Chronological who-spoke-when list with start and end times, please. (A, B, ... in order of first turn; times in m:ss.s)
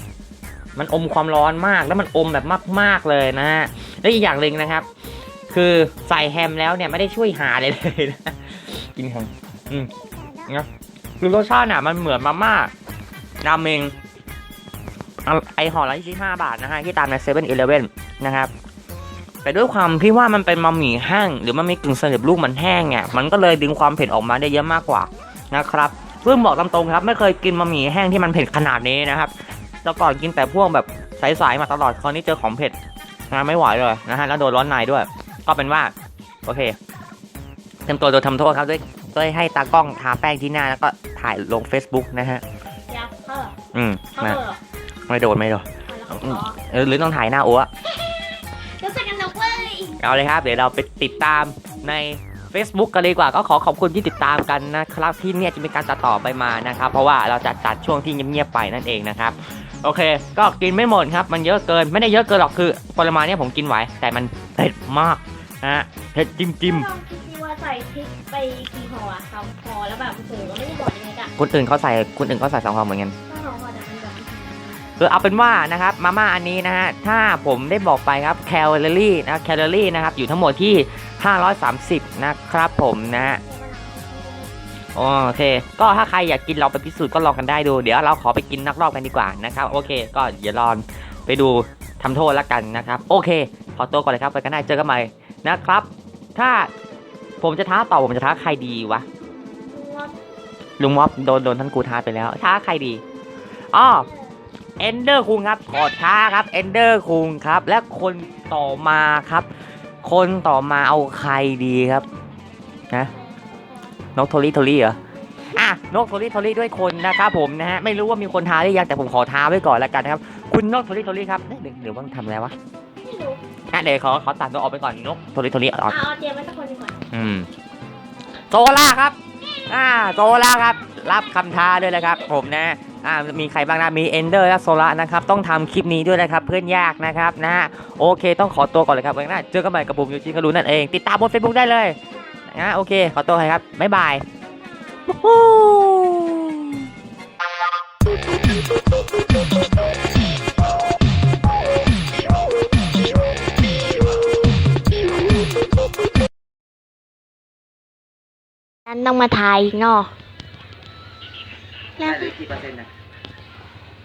0:00.8-0:04.9 A
0:05.5-0:09.9 A
0:10.0-0:10.5 B
0:11.2-0:12.7 A
0:13.4-0:13.9 A
0:15.2-0:18.5 A
0:19.4-0:29.3 A
0:29.8-0:32.8 A
0:33.3-0:35.9 A
0:36.4-0:36.8 A
0:37.8-0:42.4 A
0:42.9-0:43.6 B
0:43.7-0:44.4 A
0:44.2-0:44.6 B
0:45.1-0:47.7 A
0:45.9-0:46.6 B
0:48.8-0:50.0 B
0:50.0-1:06.9 A
1:06.6-1:11.3 B
1:11.4-1:13.1 A
1:13.3-1:14.8 B
1:15.0-1:23.4 A
1:23.2-1:24.5 B
1:24.9-1:36.7 A
1:37.4-1:39.0 A
1:39.7-1:40.2 B
1:40.8-1:43.0 A
1:43.7-1:44.1 A
1:43.9-1:44.4 B
1:44.8-1:49.5 A
1:50.0-1:52.1 A
1:53.1-1:53.9 B
1:54.1-1:55.0 A
1:55.5-2:02.5 A
2:03.0-2:03.4 B
2:03.7-2:06.0 A
2:05.9-2:07.0 B
2:07.1-2:07.5 A
2:08.5-2:09.2 A
2:09.7-2:22.0 A
2:22.5-2:24.2 A
2:25.1-2:26.8 A
2:38.8-2:40.1 B
2:42.0-2:42.9 A
2:42.0-2:42.3 B